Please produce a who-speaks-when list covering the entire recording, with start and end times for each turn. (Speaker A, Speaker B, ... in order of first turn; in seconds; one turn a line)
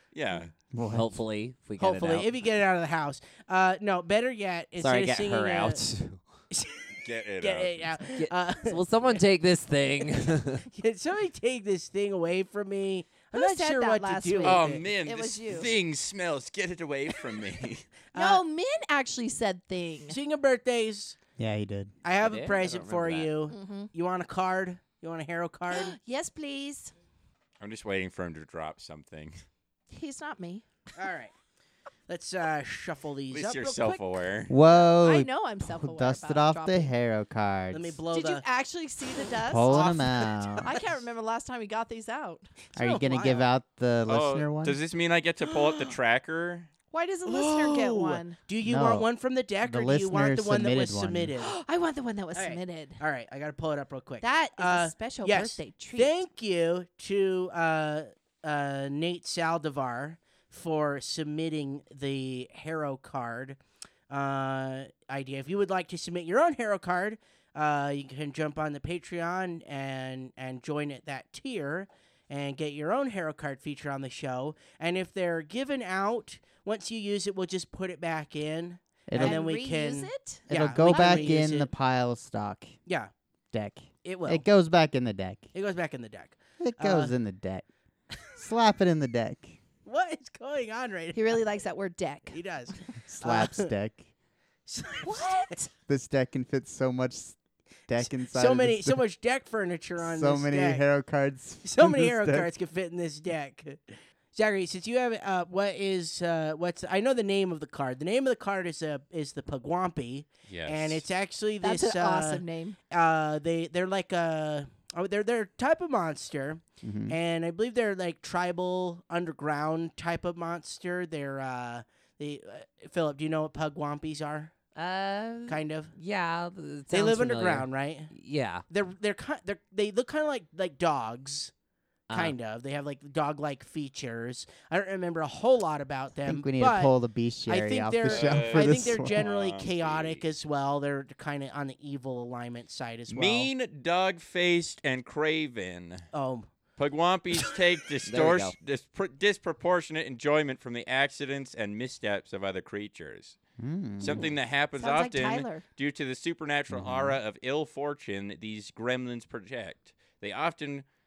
Speaker A: 0.1-0.5
Speaker B: 0.7-1.1
Speaker C: 0.9-2.3
Speaker D: 1.8-5.8
Speaker C: 4.8-6.2
Speaker D: 6.5-6.8
Speaker A: 7.0-7.8
Speaker D: 7.4-9.2
Speaker C: 8.2-10.7
Speaker D: 10.7-14.9
Speaker E: 13.3-15.7
Speaker A: 14.4-17.9
Speaker D: 18.1-18.4
Speaker E: 18.1-20.2
Speaker D: 20.1-21.2
Speaker B: 21.4-21.9
Speaker D: 22.0-25.9
Speaker C: 22.2-23.3
Speaker E: 23.5-23.9
Speaker E: 25.7-26.9
Speaker A: 27.6-29.4
Speaker E: 29.9-30.6
Speaker D: 31.0-31.3
Speaker D: 32.1-34.0
Speaker A: 33.3-34.5
Speaker B: 34.5-38.0
Speaker E: 35.0-36.9
Speaker D: 37.7-38.5
Speaker E: 38.1-42.5
Speaker B: 39.5-40.7
Speaker D: 39.6-40.8
Speaker D: 42.7-43.5
Speaker B: 42.8-44.8
Speaker A: 44.1-46.7
Speaker D: 45.5-46.0
Speaker E: 46.9-48.4
Speaker D: 47.2-51.6
Speaker B: 48.6-49.1
Speaker B: 49.6-51.3
Speaker E: 51.4-53.0
Speaker D: 52.3-63.6
Speaker E: 54.2-56.2
Speaker D: 64.1-81.7
Speaker B: 79.1-79.5
Speaker E: 79.2-81.3
Speaker B: 80.5-82.8
Speaker D: 82.9-83.1
Speaker B: 83.5-85.5
Speaker D: 84.0-84.5
Speaker D: 85.5-87.2
Speaker B: 86.6-87.7
Speaker B: 88.3-89.6
Speaker D: 89.8-91.5
Speaker E: 91.1-92.4
Speaker D: 92.3-93.7
Speaker B: 93.1-94.1
Speaker D: 94.7-95.5
Speaker E: 95.0-95.7
Speaker B: 95.9-99.0
Speaker D: 98.1-100.8
Speaker B: 100.0-102.5
Speaker D: 101.6-124.5
Speaker A: 110.5-111.0
Speaker E: 111.6-112.8
Speaker B: 116.8-117.2
Speaker C: 124.8-128.6
Speaker D: 125.5-126.0
Speaker D: 126.9-128.1
Speaker D: 128.7-131.5
Speaker C: 132.1-132.3
Speaker D: 132.1-136.9
Speaker B: 136.3-139.2
Speaker D: 137.5-143.5
Speaker A: 138.1-140.3
Speaker A: 143.1-146.1
Speaker D: 146.1-146.5
Speaker A: 146.8-153.4
Speaker C: 148.1-148.6
Speaker B: 153.6-154.3
Speaker A: 154.0-160.8
Speaker E: 154.7-155.7
Speaker B: 156.7-157.2